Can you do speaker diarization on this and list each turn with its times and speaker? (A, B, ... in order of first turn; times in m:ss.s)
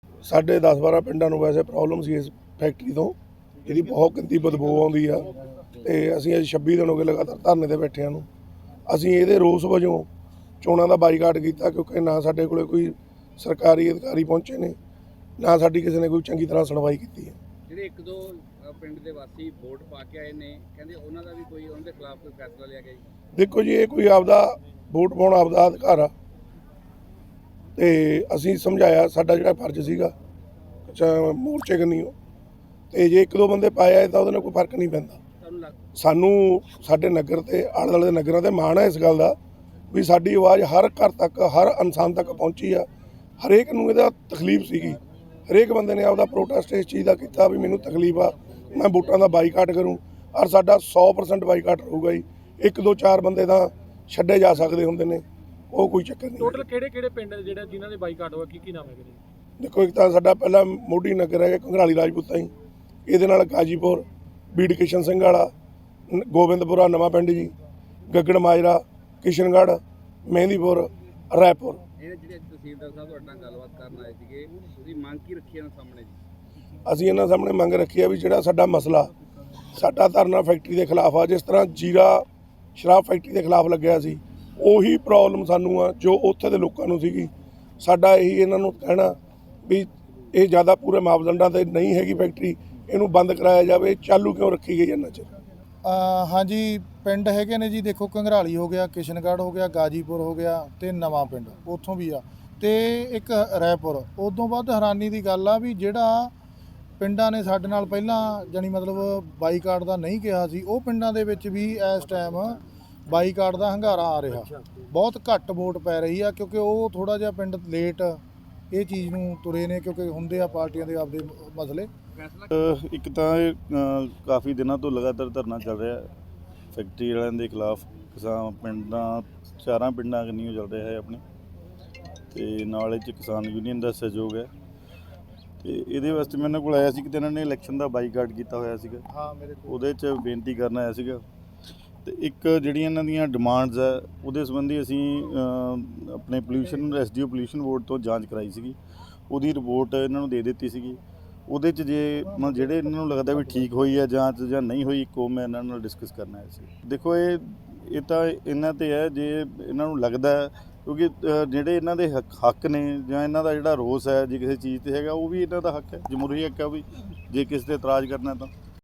0:00.3-0:05.2 A
0:05.8-0:08.3 A
0:08.9-0:10.1 A
0:10.6-0:14.8 A
0:15.4-0:17.4 A
0:17.7-0:23.0 B
0:23.4-0:26.1 A
0:27.8-0:30.1 A
0:30.9-0:32.1 A
0:32.9-0:35.2 A
0:35.4-0:35.8 B
0:36.0-0:39.4 A
0:39.9-0:42.9 A
0:43.4-0:56.6 A
0:56.4-0:59.2 C
0:59.6-1:02.5 A
1:03.1-1:05.5 A
1:06.1-1:07.5 A
1:08.1-1:11.8 A
1:12.0-1:16.2 B
1:16.8-1:19.1 A
1:19.7-1:35.3 A
1:35.8-1:46.3 D
1:47.0-2:01.9 D
2:02.2-2:02.5 B
2:02.5-2:06.1 E
2:06.7-2:11.2 E
2:12.3-2:14.5 E
2:15.6-2:19.0 E
2:19.1-2:19.8 D
2:19.7-2:21.2 E
2:22.0-2:28.8 E
2:29.3-2:48.5 E